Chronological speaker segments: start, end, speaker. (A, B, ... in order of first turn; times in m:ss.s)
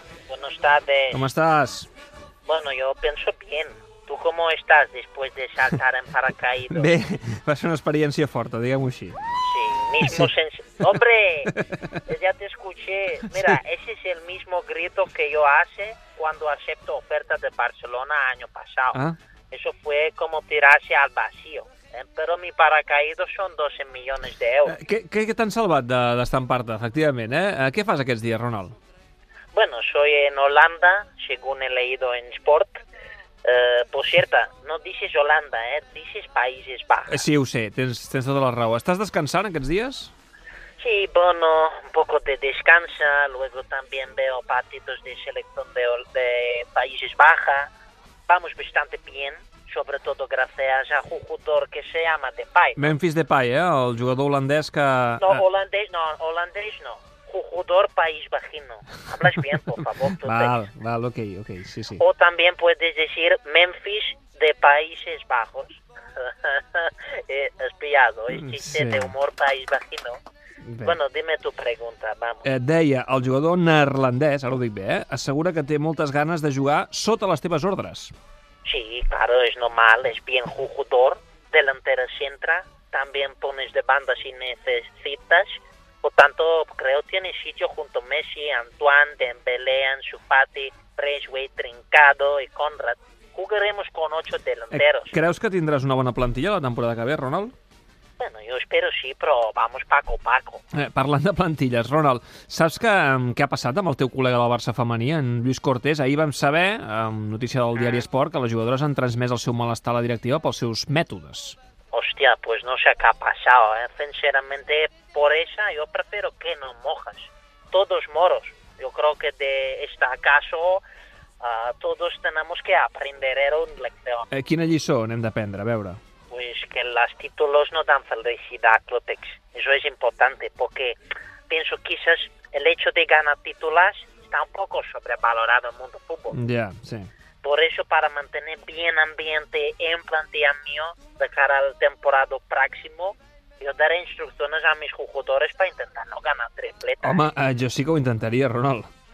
0:00.3-0:01.3 A
0:01.1-0:01.9 B
0:02.5-0:06.9 A
0:06.7-0:09.2 B
0:09.4-0:11.5 A
0:10.0-0:10.3 B
0:11.5-0:12.0 B
0:12.1-0:24.8 A
0:13.3-0:13.6 B
0:24.7-0:28.8 B
0:29.5-0:32.8 A
0:33.4-0:37.2 A
0:37.1-0:40.1 B
0:40.8-0:47.7 A
0:48.3-0:52.9 A
0:52.8-0:55.4 B
0:55.2-1:00.6 A
0:59.5-1:02.0 B
1:02.0-1:10.2 A
1:08.3-1:09.1 B
1:10.6-1:11.0 B
1:10.8-1:12.5 A
1:12.4-1:18.1 B
1:18.6-1:35.1 A
1:34.7-1:37.5 B
1:38.2-1:40.6 A
1:40.7-1:51.6 B
1:47.8-1:48.0 A
1:51.9-2:00.8 A
2:01.4-2:04.3 A
2:04.3-2:06.0 B
2:06.3-2:11.0 A
2:11.5-2:16.4 A
2:16.3-2:17.1 B
2:17.4-2:27.2 A
2:27.0-2:28.9 B